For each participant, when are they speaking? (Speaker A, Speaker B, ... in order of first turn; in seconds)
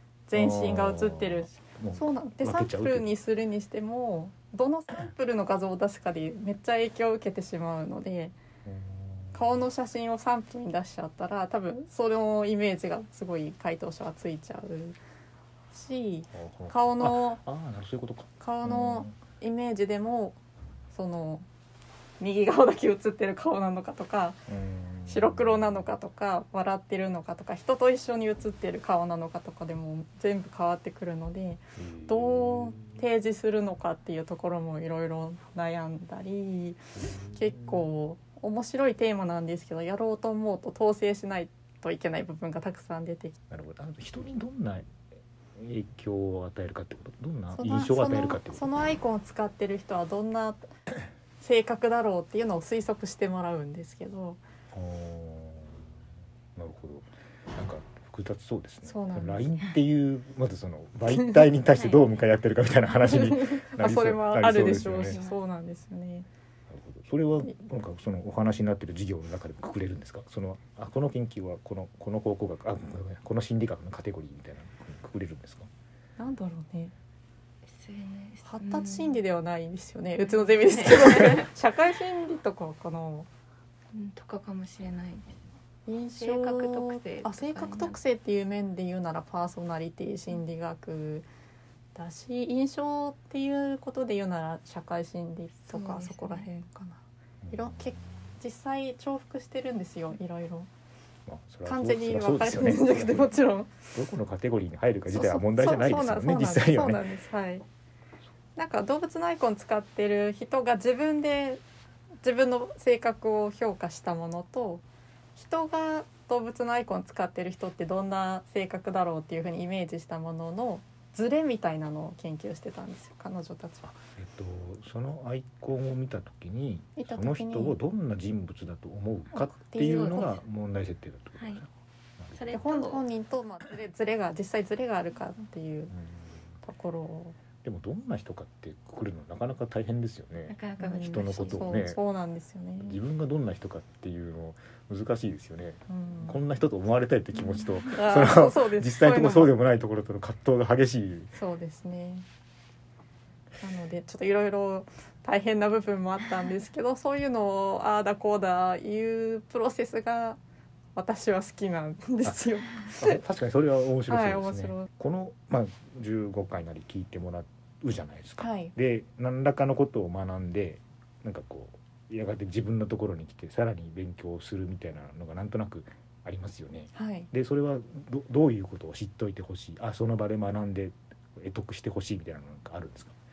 Speaker A: 0.3-8.4, 9.3-15.0, 15.7-17.4, 18.4-20.4, 20.9-21.4, 22.2-24.4, 25.1-43.4, 47.5-50.7, 51.4-54.4, 58.8-59.5, 63.0-66.3, 76.2-76.9, 78.5-83.3, 85.9-91.3, 92.0-100.7, 101.7-103.8, 105.1-107.7, 108.6-111.6, 112.2-114.8, 115.4-123.9, 127.0-127.8, 129.3-130.4, 132.5-135.9, 136.6-137.4, 140.8-143.0, 145.9-146.4, 147.4-149.5, 151.3-152.3, 153.6-160.4, 161.0-163.2, 164.1-164.9, 168.4-168.7, 176.9-177.3
Speaker B: 0.3-3.1, 8.7-9.5, 16.3-19.2, 24.5-25.9, 31.8-33.0, 37.0-37.9, 43.5-44.9, 45.5-48.7, 54.7-55.9, 56.5-65.2, 66.7-75.7, 97.4-98.0, 101.3-103.3, 103.9-107.0, 123.8-132.6, 135.9-136.3, 137.6-142.0, 142.8-151.3, 162.2-183.2
Speaker C: 61.7-62.1, 65.1-65.4, 77.7-79.2, 80.2-81.5, 83.9-85.4, 86.2-88.0, 95.7-96.5, 129.8-130.4, 132.4-133.1, 140.5-141.7